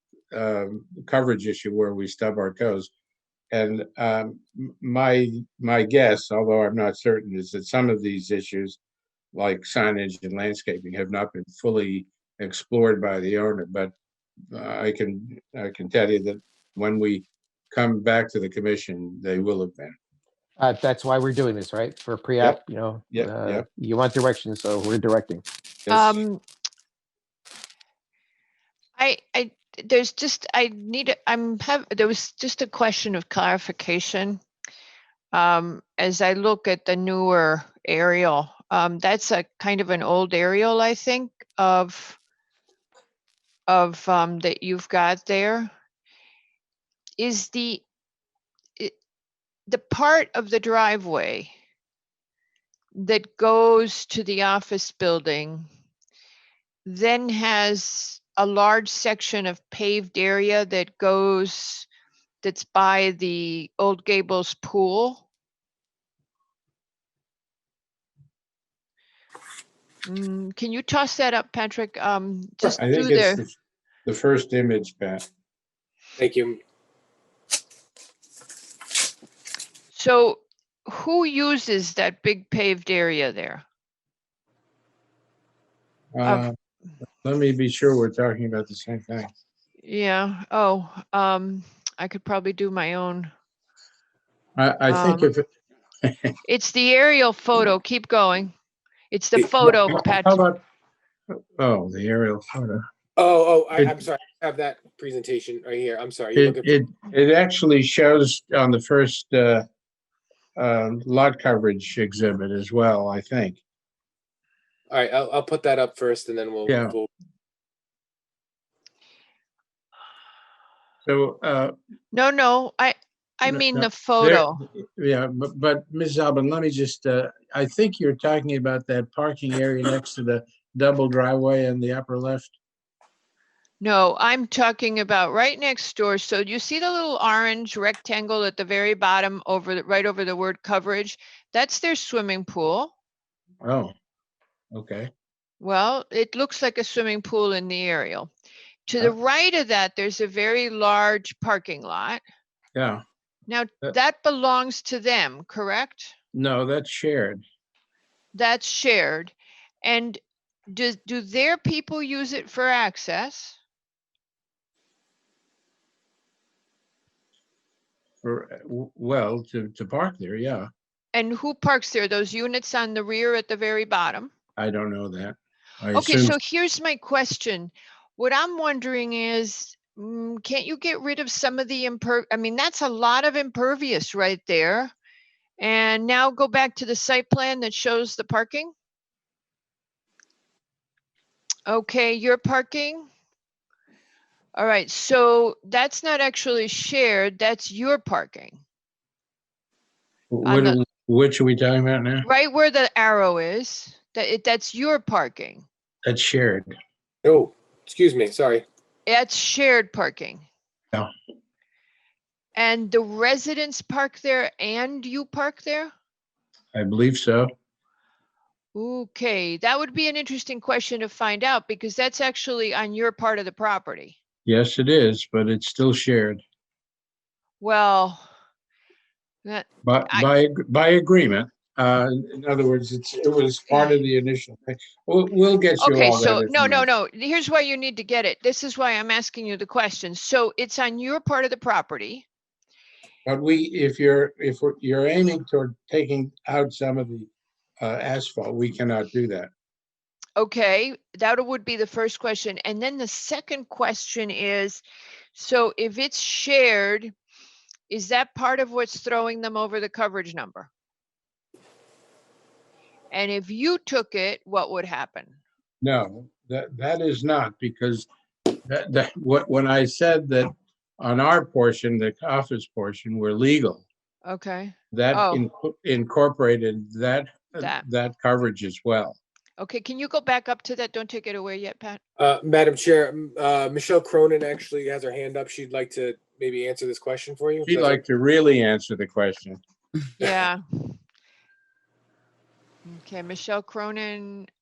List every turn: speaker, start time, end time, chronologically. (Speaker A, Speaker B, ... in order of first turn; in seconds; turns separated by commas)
Speaker A: 0.3-2.9, Speaker A: 3.5-8.8, Speaker A: 9.3-13.9, Speaker A: 14.5-19.9, Speaker B: 20.6-25.4, Speaker A: 23.1-23.6, Speaker A: 25.9-26.2, Speaker C: 25.9-26.4, Speaker C: 29.0-34.4, Speaker C: 35.3-42.2, Speaker C: 43.7-45.7, Speaker C: 47.2-47.8, Speaker C: 49.7-51.5, Speaker C: 52.9-55.7, Speaker C: 56.8-61.9, Speaker C: 62.4-65.2, Speaker C: 70.0-73.4, Speaker A: 72.6-75.2, Speaker D: 76.2-76.6, Speaker C: 79.9-83.6, Speaker A: 86.1-86.5, Speaker A: 87.2-89.3, Speaker C: 89.8-93.3, Speaker A: 94.6-95.5, Speaker C: 94.9-95.3, Speaker A: 96.0-96.3, Speaker C: 96.4-98.5, Speaker C: 99.1-100.5, Speaker A: 99.4-100.6, Speaker A: 101.3-102.8, Speaker D: 103.2-106.7, Speaker A: 106.3-109.6, Speaker A: 110.6-113.6, Speaker D: 114.9-117.1, Speaker A: 116.7-116.9, Speaker A: 121.0-121.7, Speaker C: 122.1-124.7, Speaker A: 123.5-132.6, Speaker C: 133.8-142.9, Speaker A: 143.6-143.9, Speaker A: 144.7-145.1, Speaker C: 145.6-148.3, Speaker C: 148.9-152.2, Speaker A: 152.7-153.0, Speaker C: 153.5-156.1, Speaker A: 156.3-157.4, Speaker C: 158.3-163.6, Speaker A: 168.2-170.7, Speaker C: 171.1-174.3, Speaker A: 174.6-176.3, Speaker C: 175.9-184.9, Speaker C: 185.6-188.7, Speaker C: 191.7-193.1, Speaker C: 194.5-198.6, Speaker A: 200.3-202.3, Speaker C: 200.4-200.8, Speaker C: 202.2-205.6, Speaker A: 206.0-206.7, Speaker D: 207.2-208.6, Speaker C: 209.1-210.4, Speaker C: 212.6-215.9, Speaker A: 216.7-217.5, Speaker C: 218.7-224.2, Speaker A: 224.4-226.4, Speaker C: 227.6-228.3, Speaker C: 229.4-230.3, Speaker A: 229.8-236.8, Speaker C: 233.7-234.0, Speaker C: 235.8-242.2, Speaker A: 243.2-247.3, Speaker A: 247.8-249.5, Speaker C: 250.4-254.8, Speaker C: 255.3-257.1, Speaker C: 257.9-260.7, Speaker C: 263.1-265.4, Speaker A: 265.8-268.1, Speaker A: 268.6-273.9, Speaker C: 274.2-275.5, Speaker A: 274.9-279.2, Speaker C: 279.6-282.0, Speaker D: 282.2-288.0, Speaker A: 287.6-289.6, Speaker C: 290.2-290.9, Speaker C: 292.8-294.5